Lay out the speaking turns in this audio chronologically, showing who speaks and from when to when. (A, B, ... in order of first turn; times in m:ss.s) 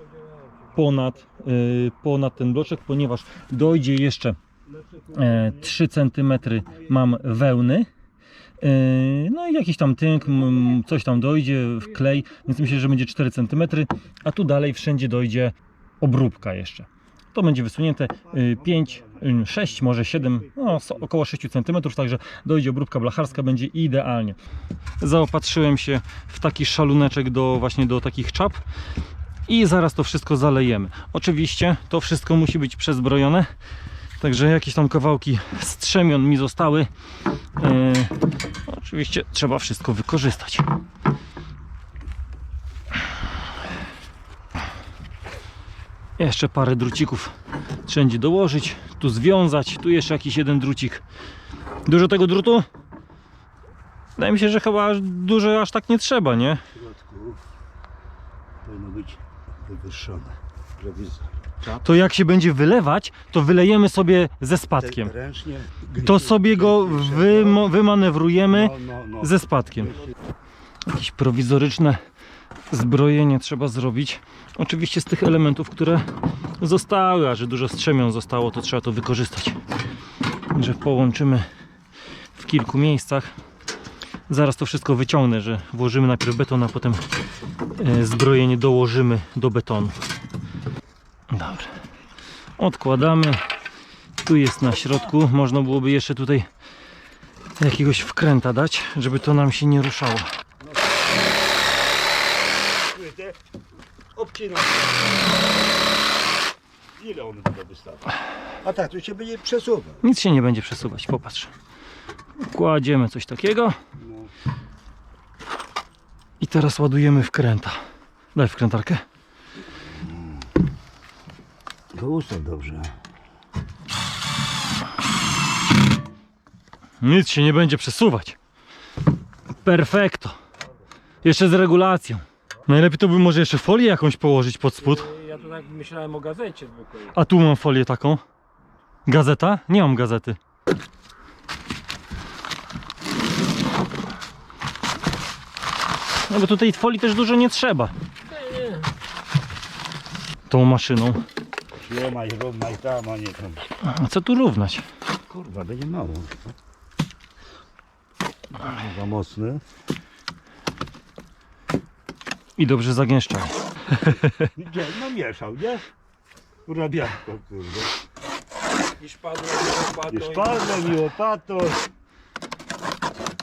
0:00.7-0:04.4 A
0:04.9-0:05.3 B
0:05.1-0:07.9 A
0:08.6-0:24.4 A
0:18.3-0:21.1 B
0:25.0-0:28.6 A
0:29.5-0:33.5 A
0:34.2-0:36.9 A
0:37.6-0:38.1 A
0:38.7-0:40.6 A
0:46.2-0:47.3 A
0:47.8-0:51.0 A
0:51.8-0:52.6 A
0:54.2-0:56.6 A
0:56.7-0:57.4 B
0:58.6-1:01.3 B
1:01.7-1:05.1 A
1:04.8-1:07.7 B
1:06.0-1:10.0 A
1:08.5-1:09.4 B
1:10.9-1:12.0 A
1:12.7-1:19.6 A
1:20.5-1:21.5 A
1:22.3-1:23.3 A
1:24.3-1:27.0 A
1:27.8-1:30.0 A
1:31.3-1:31.7 A
1:32.6-1:33.4 A
1:34.2-1:36.5 A
1:37.6-1:40.3 A
1:40.6-1:41.0 B
1:42.8-1:43.4 B
1:44.1-1:45.2 B
1:47.0-1:50.0 B
1:50.0-1:51.5 A
1:52.4-1:53.8 A
1:54.0-1:54.3 B
1:56.4-1:57.8 A
1:58.3-1:59.0 A
2:01.9-2:02.9 B
2:07.0-2:08.4 A
2:09.6-2:10.4 A
2:11.2-2:15.1 A
2:15.0-2:17.1 C
2:17.0-2:18.2 A
2:19.0-2:20.4 A
2:26.3-2:27.9 A
2:30.5-2:31.2 A
2:31.8-2:33.6 B
2:33.8-2:34.8 A
2:35.3-2:36.4 B
2:38.6-2:39.6 B
2:42.6-2:44.5 A
2:44.4-2:45.9 B
2:46.6-2:47.9 B
2:49.0-2:50.8 C
2:50.1-2:51.8 B